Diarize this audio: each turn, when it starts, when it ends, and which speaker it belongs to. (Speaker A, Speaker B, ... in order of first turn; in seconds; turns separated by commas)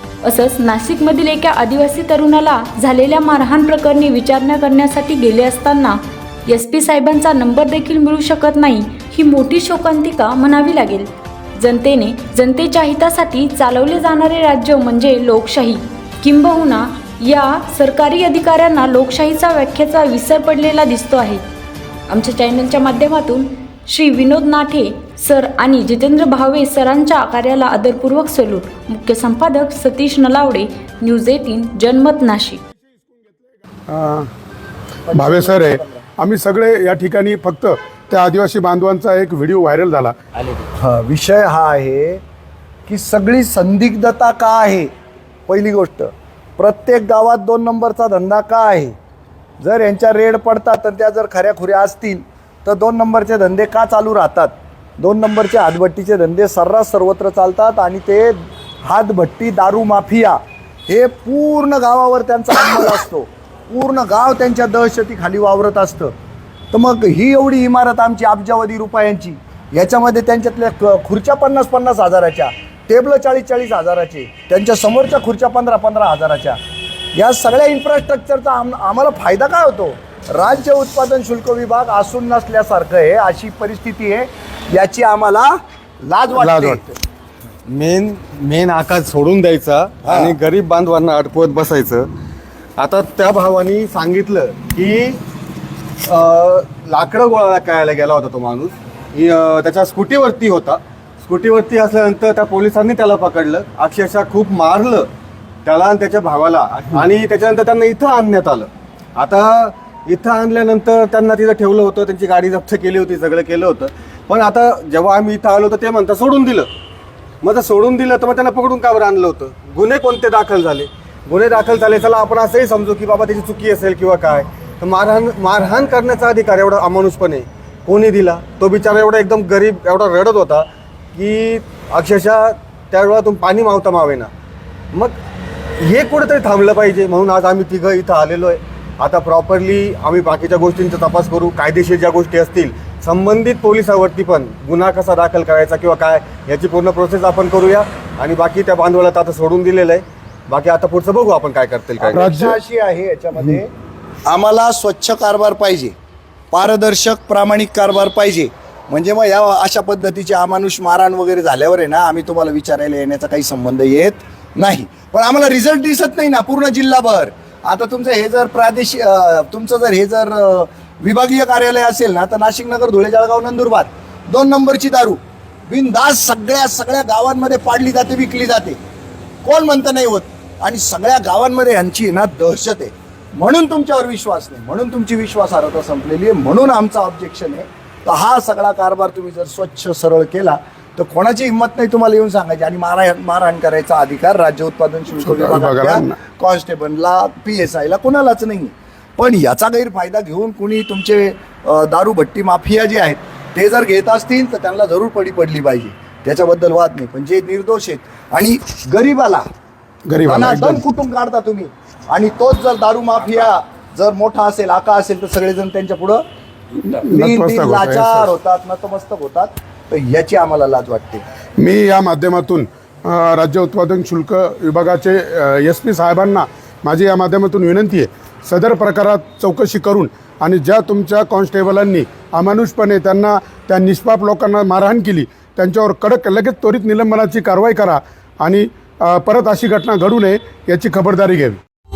Speaker A: 0.2-21.4, Speaker A: 22.1-32.6, Speaker B: 32.9-34.3, Speaker C: 35.1-36.0, Speaker B: 35.1-40.1, Speaker C: 40.8-42.2, Speaker C: 42.9-44.9, Speaker C: 45.5-49.0, Speaker C: 49.6-66.1, Speaker C: 66.7-76.6, Speaker C: 77.2-87.0, Speaker B: 86.5-86.8, Speaker D: 87.7-92.1, Speaker C: 90.0-90.3, Speaker D: 92.8-95.2, Speaker D: 96.0-105.1, Speaker D: 105.7-116.7, Speaker D: 117.4-134.3, Speaker D: 135.8-152.3, Speaker C: 152.0-153.7, Speaker B: 152.2-152.5, Speaker C: 154.3-155.9, Speaker C: 156.5-175.2, Speaker C: 175.7-178.8, Speaker C: 179.4-209.5, Speaker B: 195.3-196.1, Speaker B: 210.1-210.8, Speaker C: 210.2-216.2, Speaker B: 216.9-218.3, Speaker C: 217.1-221.2, Speaker B: 221.6-241.6